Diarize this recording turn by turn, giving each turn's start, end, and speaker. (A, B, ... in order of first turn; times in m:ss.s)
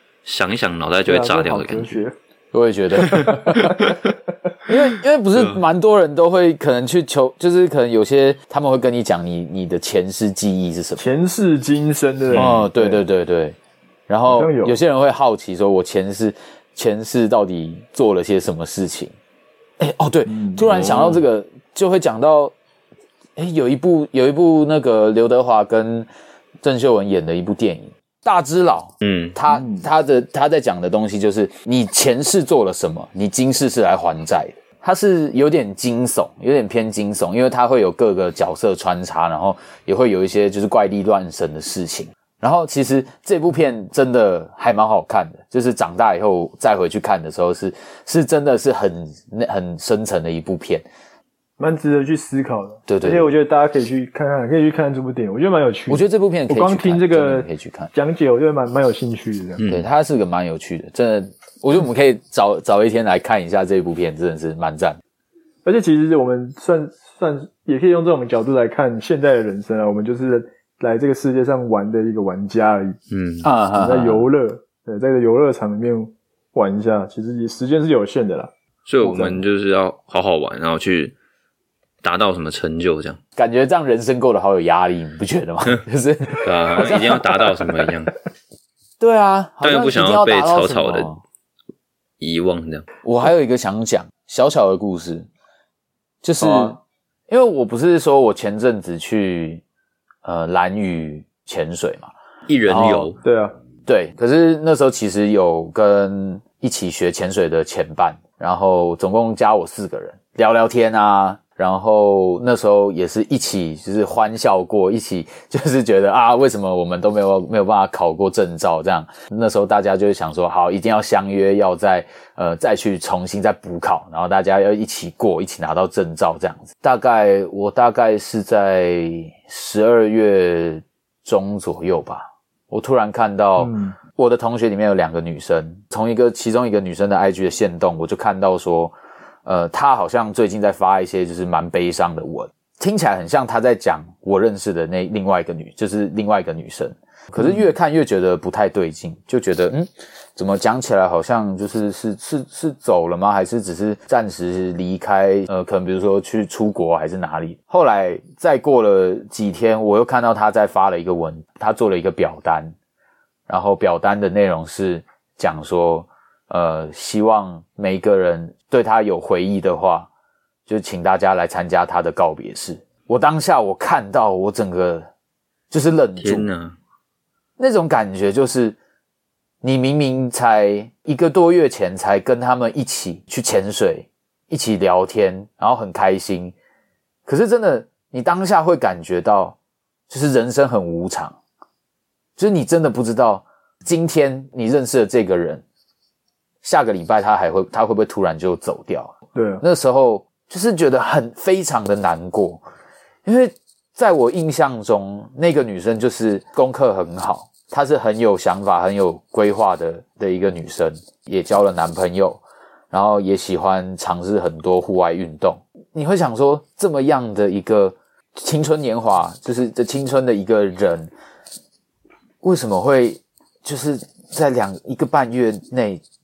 0:00.2-0:02.0 A
0:01.0-0:02.1 B
0:02.5-0:04.0 C
0:03.0-0:04.0 A
0:03.3-0:04.0 B
0:04.7-0:11.0 C
0:05.3-0:05.6 A
0:11.0-0:13.0 B
0:12.3-0:13.6 C
0:14.1-0:19.1 C
0:14.3-0:14.8 B
0:19.8-0:22.5 C
0:20.2-0:21.2 B
0:23.4-0:26.1 C
0:26.6-0:50.8 C
0:29.0-0:29.4 A
0:29.5-0:29.8 B
0:51.6-0:59.6 B
0:52.9-0:53.3 C
0:55.9-0:57.9 C
0:59.6-0:59.8 A
0:59.7-1:05.0 C
1:05.6-1:13.0 B
1:13.1-1:13.5 A
1:13.4-1:14.2 C
1:13.7-1:18.5 B
1:18.8-1:21.1 A
1:19.0-1:19.4 C
1:22.0-1:23.2 A
1:23.4-1:27.5 C
1:26.4-1:28.1 A
1:29.0-1:31.2 C
1:29.6-1:31.1 A
1:32.2-1:32.8 A
1:33.0-1:35.3 C
1:36.2-1:36.8 C
1:36.4-1:36.8 B
1:37.3-1:39.6 C
1:40.2-1:42.1 C
1:42.5-1:43.2 A
1:42.7-1:43.1 C
1:43.2-1:43.5 B
1:43.8-2:18.9 C
2:13.6-2:14.0 B
2:19.4-2:42.7 C
2:27.4-2:27.7 B
2:43.5-2:50.1 C
2:50.7-2:55.1 C
2:55.7-2:56.5 C
2:56.2-2:56.8 A
2:57.6-2:58.8 C
2:59.6-3:06.5 C
3:07.2-3:09.6 C
3:10.1-3:11.4 C
3:12.4-3:15.6 C
3:16.6-3:22.6 C
3:19.3-3:19.6 B
3:23.2-3:41.1 C
3:42.4-3:46.0 C